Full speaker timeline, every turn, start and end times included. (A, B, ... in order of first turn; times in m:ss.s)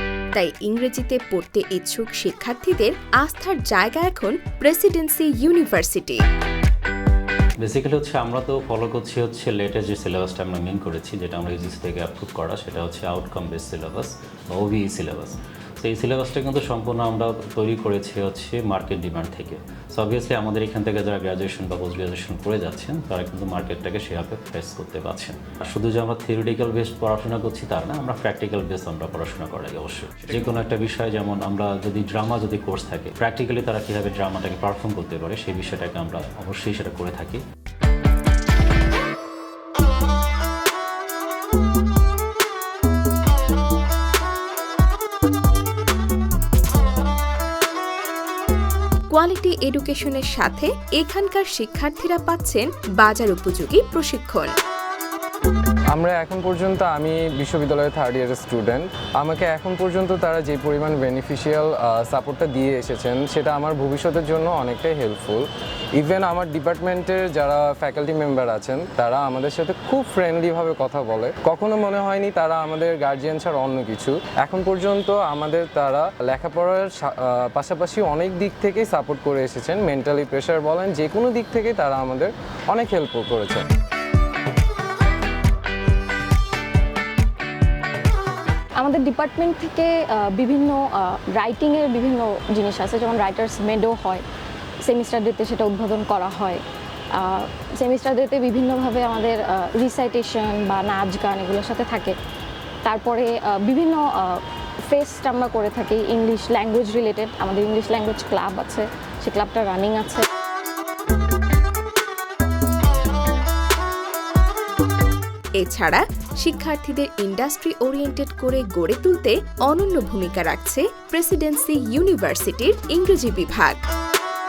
0:00.3-0:06.2 A
0:07.6-0:37.4 B
0:49.1-0:54.5 A
0:55.9-1:23.6 C
1:28.8-1:34.2 D
1:34.8-1:36.6 D
1:37.1-1:42.2 D
1:42.8-1:50.2 D
1:55.6-2:03.8 A